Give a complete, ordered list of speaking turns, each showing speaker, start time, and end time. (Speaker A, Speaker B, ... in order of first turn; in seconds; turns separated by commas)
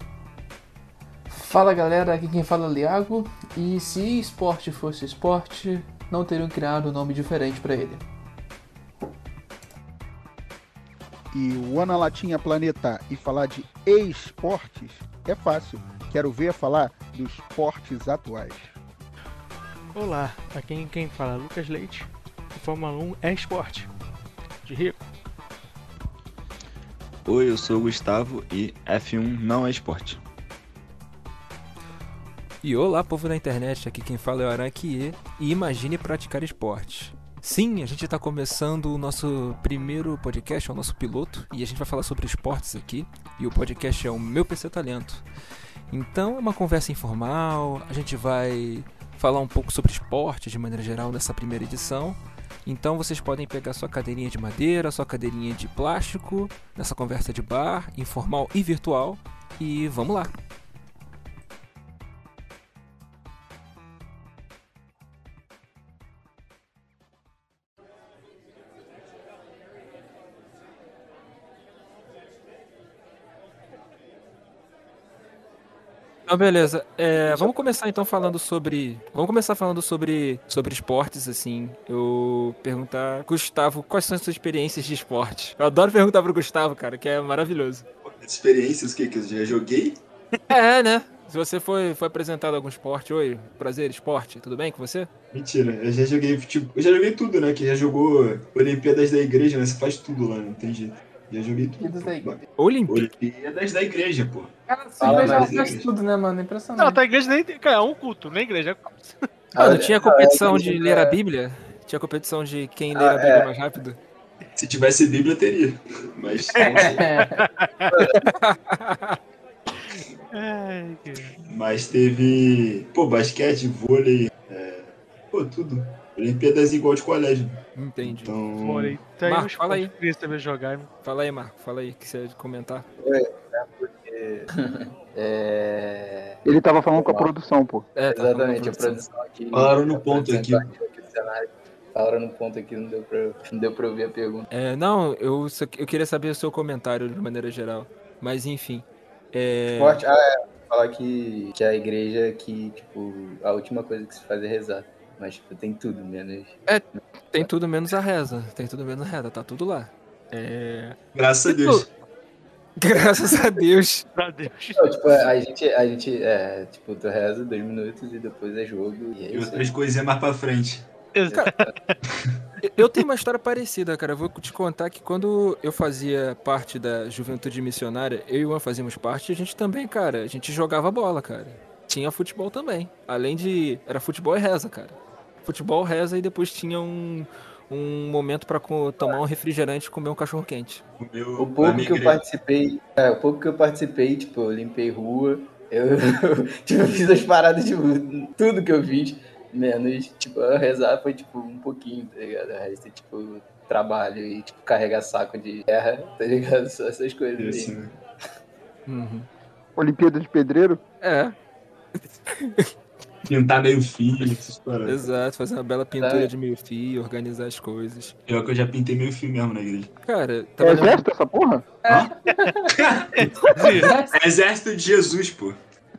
Speaker A: 1.3-8.0, Speaker B: 11.3-18.8, Speaker C: 19.9-23.9, Speaker C: 24.6-25.0, Speaker D: 27.2-30.2, Speaker E: 32.6-45.2, Speaker E: 45.9-60.4, Speaker E: 76.3-87.9, Speaker F: 77.1-78.3, Speaker D: 88.0-90.0, Speaker E: 90.5-95.1, Speaker D: 95.3-105.9, Speaker A: 101.8-102.4, Speaker E: 102.6-103.1, Speaker A: 104.7-107.0, Speaker F: 105.0-105.6, Speaker C: 106.8-109.2, Speaker F: 109.5-111.2, Speaker E: 109.6-114.0, Speaker F: 113.0-113.5, Speaker D: 114.6-117.0, Speaker C: 116.5-118.1, Speaker A: 116.8-117.4, Speaker F: 117.9-118.2, Speaker E: 118.2-119.2, Speaker C: 120.3-121.3, Speaker D: 121.5-129.1, Speaker E: 127.8-128.4, Speaker C: 128.6-130.9, Speaker E: 129.2-129.9, Speaker E: 131.0-132.9, Speaker F: 133.0-136.4, Speaker B: 136.4-137.9, Speaker F: 136.9-137.3, Speaker E: 137.9-139.0, Speaker F: 138.1-144.5, Speaker D: 139.5-140.7, Speaker E: 144.5-150.0, Speaker F: 149.7-156.6, Speaker E: 156.7-161.9, Speaker D: 161.2-161.9, Speaker E: 162.8-164.1, Speaker C: 164.2-164.8, Speaker F: 164.8-169.7, Speaker D: 169.3-170.9, Speaker C: 171.1-172.0, Speaker D: 172.1-172.4, Speaker E: 172.6-190.8, Speaker D: 191.0-192.2, Speaker F: 191.4-207.8, Speaker D: 207.4-207.9, Speaker E: 208.9-209.3, Speaker B: 209.8-210.8, Speaker E: 211.0-211.3, Speaker E: 212.3-212.7, Speaker D: 213.3-215.0, Speaker E: 214.8-218.2, Speaker F: 216.0-216.3, Speaker D: 218.3-219.9, Speaker E: 220.1-221.1, Speaker B: 220.6-221.7, Speaker A: 221.8-224.2, Speaker D: 221.9-222.1, Speaker D: 222.7-225.6, Speaker C: 223.2-223.9